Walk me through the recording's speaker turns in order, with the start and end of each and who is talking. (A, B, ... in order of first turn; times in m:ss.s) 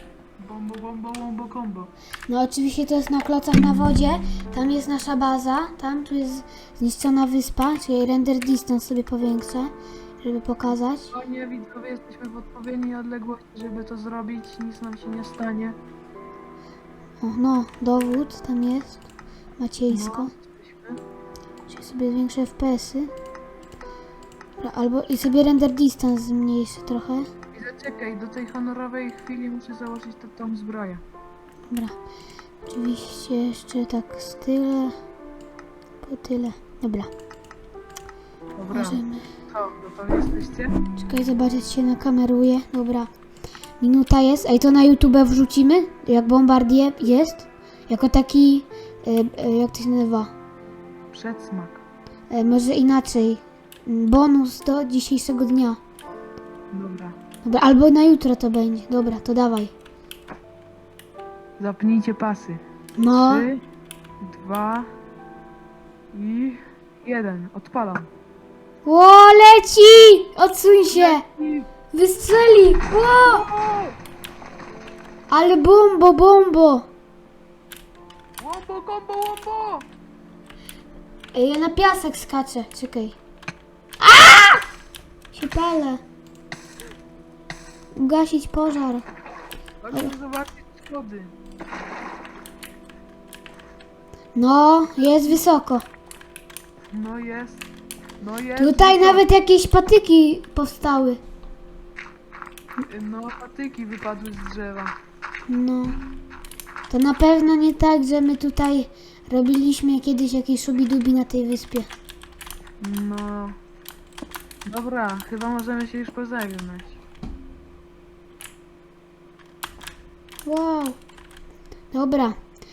0:00.4-0:01.9 A
0:02.3-0:11.1 B
0:11.1-0:15.8 A
0:17.2-0:19.0 B
0:19.6-0:20.3 B
0:19.9-0:21.0 A
0:21.7-0:23.1 B
0:24.6-0:27.3 B
0:27.5-0:31.0 A
0:31.7-0:31.9 B
0:32.6-0:34.9 B
0:36.0-0:37.1 B
0:38.6-0:40.8 A
0:38.7-0:39.3 B
0:40.9-0:43.1 B
0:43.8-0:50.3 B
0:51.1-0:51.8 A
0:52.3-0:55.8 B
0:56.7-0:57.2 A
0:57.4-0:59.7 B
1:01.6-1:02.6 A
1:03.0-1:03.4 B
1:03.2-1:03.6 A
1:04.2-1:04.9 A
1:06.1-1:08.1 A
1:08.8-1:11.2 B
1:10.9-1:11.7 A
1:11.9-1:13.4 B
1:13.2-1:14.0 A
1:15.3-1:16.9 B
1:18.4-1:19.9 A
1:21.3-1:23.2 B
1:24.0-1:24.6 B
1:25.3-1:26.0 B
1:28.0-1:29.0 B
1:29.8-1:31.4 A
1:34.3-1:35.8 B
1:36.9-1:37.6 A
1:38.2-1:39.2 A
1:38.6-1:41.2 B
1:42.8-1:44.9 A
1:45.5-1:46.0 B
1:46.9-1:51.9 B
1:52.8-1:53.6 A
1:54.6-1:57.0 A
2:00.4-2:01.0 B
2:01.9-2:02.4 B